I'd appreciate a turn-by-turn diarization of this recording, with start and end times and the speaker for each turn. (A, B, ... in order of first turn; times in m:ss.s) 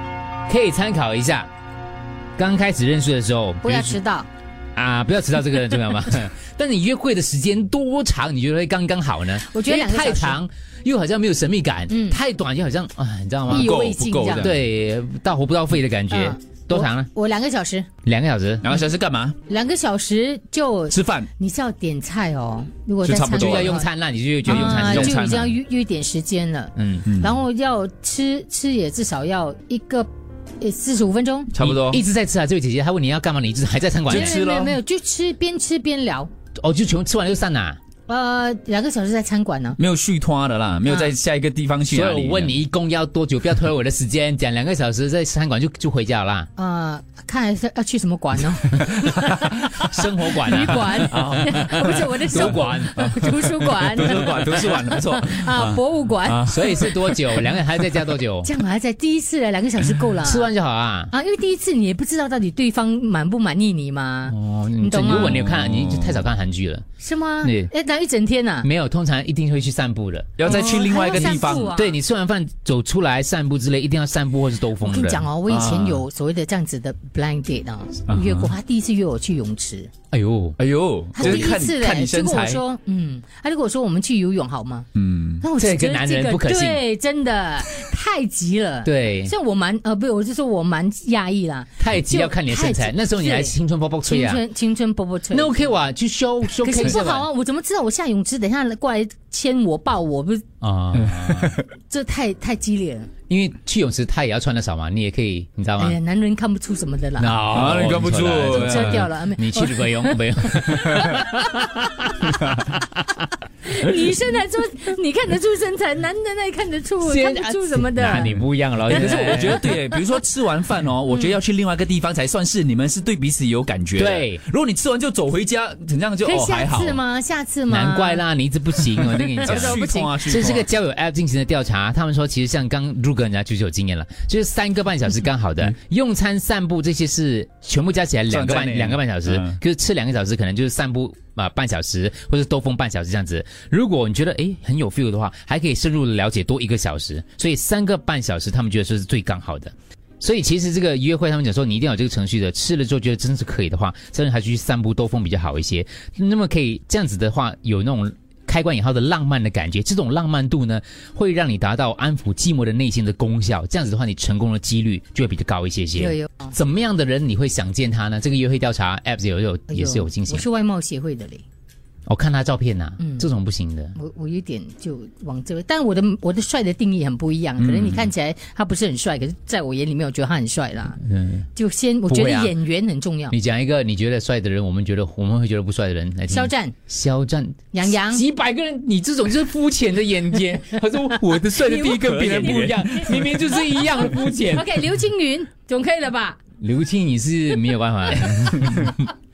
0:00.5-0:01.5 A
0:02.4-0:04.0 A
0:03.6-0:04.3 B
0:04.7-0:13.7 A
0:09.4-0:10.4 B
0:11.9-0:12.2 B
0:13.5-0:14.6 C
0:13.5-0:14.5 B
0:14.3-0:17.1 A
0:16.1-0:17.9 B
0:18.0-0:18.7 A
0:18.6-0:19.4 C
0:19.4-0:23.9 B
0:20.9-0:21.3 C
0:23.0-0:23.8 C
0:23.3-0:25.3 A
0:24.4-0:25.5 C
0:24.5-0:30.1 B
0:26.8-0:27.1 A
0:27.1-0:27.3 C
0:30.6-0:31.5 B
0:31.5-0:32.0 C
0:31.6-0:34.4 A
0:34.1-0:34.8 C
0:34.1-0:36.3 B
0:36.6-0:37.8 A
0:38.1-0:39.8 B
0:39.8-0:42.5 C
0:40.8-0:41.1 B
0:41.9-0:46.5 A
0:46.6-0:57.4 B
0:49.7-0:53.1 A
0:51.1-0:57.0 C
0:56.4-0:58.5 A
0:58.4-1:00.5 B
1:00.2-1:01.1 A
1:01.1-1:05.4 B
1:04.3-1:06.8 A
1:05.2-1:06.2 C
1:07.0-1:08.7 B
1:07.4-1:07.7 A
1:08.6-1:15.2 A
1:10.4-1:11.7 C
1:10.4-1:12.0 B
1:14.8-1:19.9 B
1:15.5-1:16.0 C
1:18.1-1:18.5 C
1:20.1-1:20.6 A
1:20.6-1:22.6 C
1:21.1-1:24.9 B
1:24.9-1:25.4 C
1:25.4-1:33.5 B
1:25.6-1:26.8 A
1:28.8-1:29.3 A
1:31.8-1:34.4 A
1:34.0-1:35.7 B
1:35.3-1:37.2 A
1:36.5-1:40.4 B
1:40.6-1:41.6 A
1:40.9-1:41.6 C
1:41.9-1:43.1 B
1:43.3-1:46.0 A
1:45.8-1:47.4 B
1:47.2-1:52.8 A
1:47.5-1:49.1 C
1:48.4-1:52.2 B
1:53.6-1:58.3 B
1:57.0-1:59.6 A
1:58.9-2:07.0 C
1:58.9-1:59.9 B
2:04.0-2:04.4 A
2:06.2-2:08.2 B
2:07.7-2:50.4 A
2:09.0-2:10.4 B
2:09.4-2:10.7 C
2:18.3-2:19.6 C
2:46.0-2:46.5 B
2:49.7-2:51.4 B
2:52.1-2:54.0 A
2:54.0-3:01.0 B
2:57.6-2:57.9 C
3:01.0-3:01.5 A
3:01.6-3:03.3 B
3:02.1-3:02.5 A
3:03.3-3:14.7 A
3:06.3-3:06.7 B
3:07.7-3:08.2 B
3:11.6-3:13.3 C
3:14.3-3:16.4 B
3:16.6-3:19.1 A